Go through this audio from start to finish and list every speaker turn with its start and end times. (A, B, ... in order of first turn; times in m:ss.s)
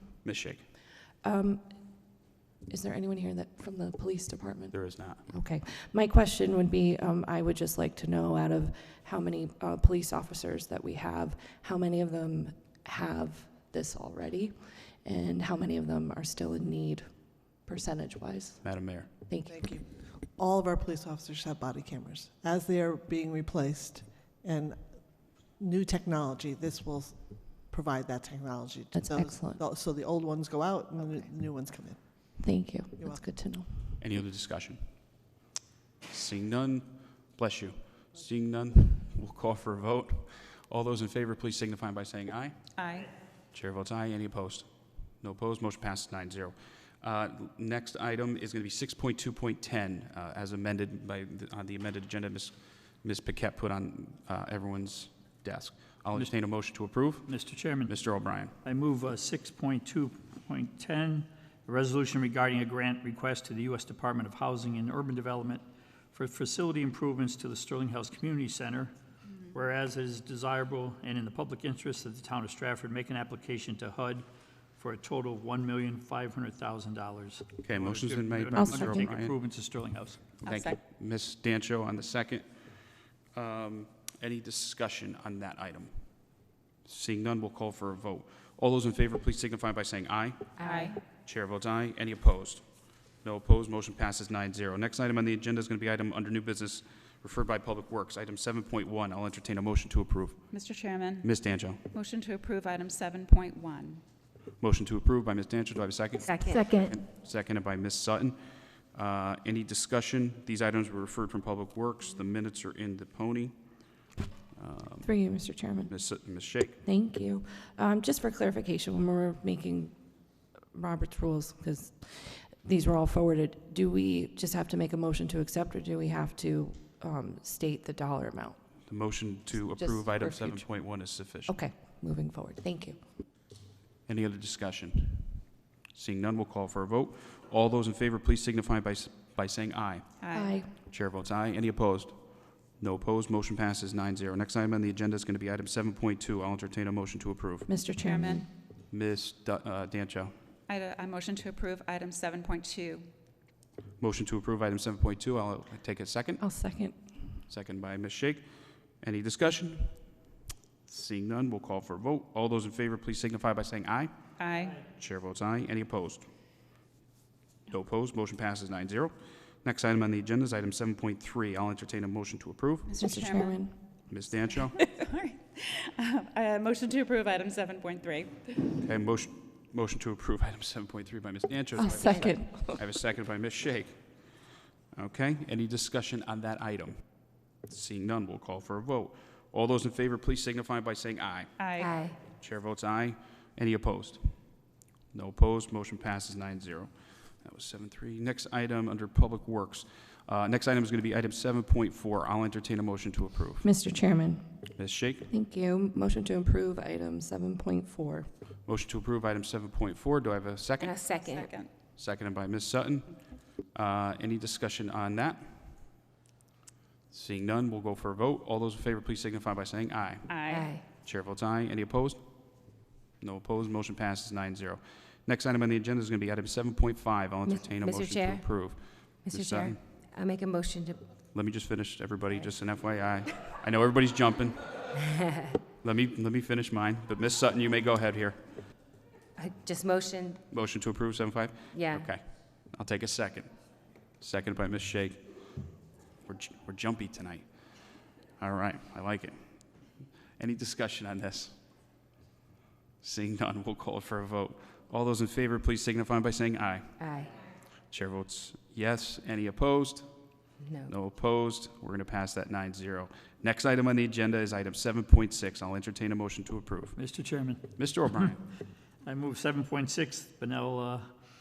0:00.2-0:00.7 A
0:01.2-0:01.7 B
0:02.7-0:17.1 B
0:04.7-0:05.2 A
0:17.6-0:18.6 B
0:18.6-0:19.1 A
0:19.3-0:19.7 B
0:19.4-0:32.4 C
0:28.9-0:29.6 B
0:32.4-0:34.0 B
0:33.0-0:33.2 C
0:34.0-0:34.8 A
0:36.1-0:42.7 A
0:42.8-0:43.1 D
0:43.5-0:58.5 A
0:57.2-0:57.9 E
0:58.6-1:08.9 E
1:09.5-1:14.2 E
1:14.8-1:20.4 E
1:17.6-1:19.3 A
1:18.5-1:19.1 B
1:20.4-1:22.4 A
1:20.4-1:20.8 D
1:23.3-1:25.9 A
1:26.8-1:30.6 A
1:30.6-1:30.9 F
1:30.6-1:31.0 D
1:31.2-1:32.6 A
1:33.2-1:40.4 A
1:40.5-1:41.3 D
1:41.2-1:41.8 A
1:41.9-1:44.0 D
1:44.6-1:48.4 A
1:46.2-1:46.8 F
1:48.9-1:53.6 A
1:54.6-1:55.2 A
1:55.0-1:55.9 B
1:55.9-1:56.8 A
1:56.8-1:59.9 B
2:00.7-2:08.6 B
2:08.9-2:11.6 A
2:09.5-2:10.8 B
2:11.5-2:13.0 B
2:14.1-2:15.4 A
2:15.9-2:20.1 A
2:20.2-2:20.5 D
2:20.3-2:20.7 B
2:20.7-2:22.2 A
2:22.8-2:27.7 A
2:27.7-2:28.5 B
2:28.0-2:28.4 D
2:28.9-2:30.3 A
2:30.7-2:33.1 D
2:34.0-2:36.4 A
2:36.4-2:36.9 B
2:37.5-2:38.4 A
2:39.0-2:40.0 A
2:40.9-2:44.1 A
2:44.4-2:44.8 D
2:44.9-2:46.3 A
2:47.7-2:53.0 A
2:52.8-2:53.6 D
2:53.0-2:53.8 B
2:54.1-2:54.8 A
2:54.8-2:58.8 D
2:58.8-3:04.0 A
3:01.7-3:02.8 B
3:04.9-3:07.0 A
3:07.6-3:11.5 A
3:11.6-3:12.0 D
3:11.8-3:12.2 F
3:12.3-3:14.3 A
3:15.1-3:16.9 A
3:17.4-3:23.7 A
3:23.6-3:24.4 B
3:24.8-3:25.3 A
3:25.3-3:28.3 B
3:28.6-3:31.0 A
3:30.8-3:31.5 F
3:31.2-3:31.7 D
3:32.0-3:33.1 A
3:33.7-3:35.6 A
3:37.1-3:40.4 A
3:40.3-3:40.7 D
3:40.5-3:40.8 F
3:40.9-3:42.2 A
3:43.2-3:49.8 A
3:47.4-3:48.4 F
3:49.3-3:51.0 F
3:51.3-3:54.6 A
3:55.8-3:58.4 A
3:59.4-4:00.4 F
4:00.5-4:03.5 A
4:01.7-4:02.1 F
4:04.2-4:05.2 A
4:06.2-4:07.4 A
4:08.4-4:09.4 A
4:10.4-4:11.5 A
4:13.0-4:17.0 A
4:17.0-4:17.4 F
4:17.9-4:20.1 A
4:20.6-4:20.9 F
4:20.9-4:27.0 A
4:26.9-4:28.3 E
4:27.8-4:28.4 A
4:29.0-4:31.1 E